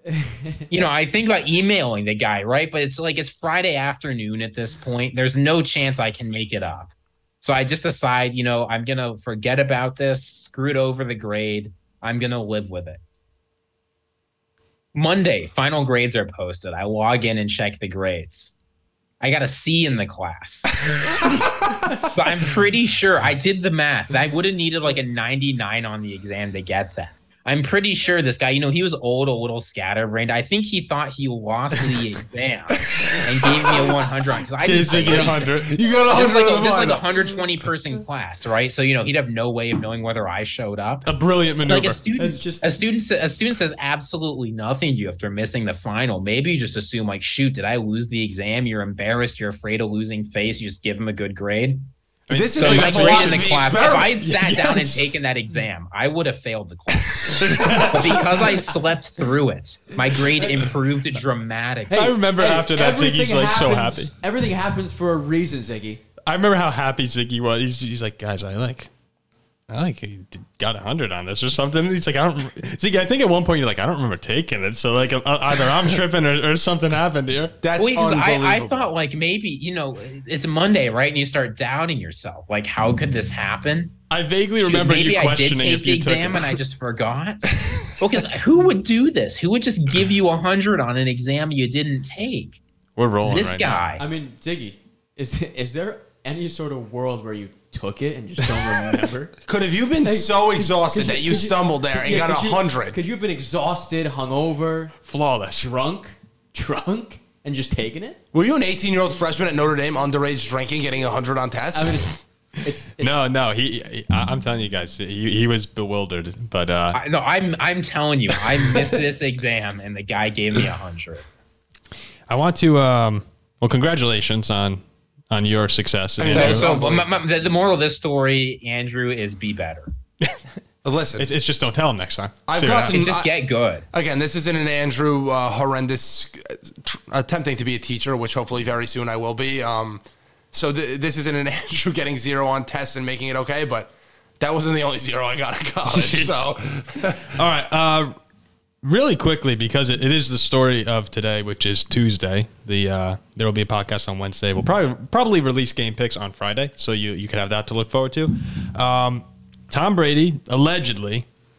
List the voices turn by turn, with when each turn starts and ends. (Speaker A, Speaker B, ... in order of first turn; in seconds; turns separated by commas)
Speaker A: 0.2-0.6, Speaker B: 0.7-13.0, Speaker B: 14.9-18.5, Speaker B: 19.2-35.5, Speaker C: 32.8-33.9, Speaker D: 34.6-35.7, Speaker C: 35.1-37.2, Speaker B: 36.1-41.1, Speaker D: 41.1-42.0, Speaker B: 41.6-51.9, Speaker A: 42.1-42.7, Speaker D: 52.3-55.1, Speaker C: 52.3-54.3, Speaker B: 52.6-62.1, Speaker D: 57.4-58.7, Speaker A: 61.9-66.0, Speaker D: 61.9-64.1, Speaker D: 66.3-68.9, Speaker D: 69.7-77.6, Speaker C: 77.6-78.9, Speaker B: 77.8-84.0, Speaker D: 84.1-86.6, Speaker B: 84.6-92.6, Speaker D: 93.0-93.8, Speaker B: 93.2-94.0, Speaker A: 94.0-99.3, Speaker C: 99.5-103.0, Speaker A: 100.0-105.0, Speaker D: 105.0-105.7, Speaker A: 105.6-108.2, Speaker C: 108.3-112.1, Speaker A: 111.7-113.2, Speaker D: 113.0-117.0, Speaker B: 116.9-121.2, Speaker D: 122.3-126.9, Speaker C: 126.2-127.2, Speaker B: 126.2-129.9, Speaker C: 130.8-131.3, Speaker D: 131.2-133.0, Speaker C: 132.5-133.3, Speaker B: 132.9-133.8, Speaker C: 133.9-147.4, Speaker D: 145.9-146.5, Speaker D: 147.2-148.2, Speaker D: 148.8-161.3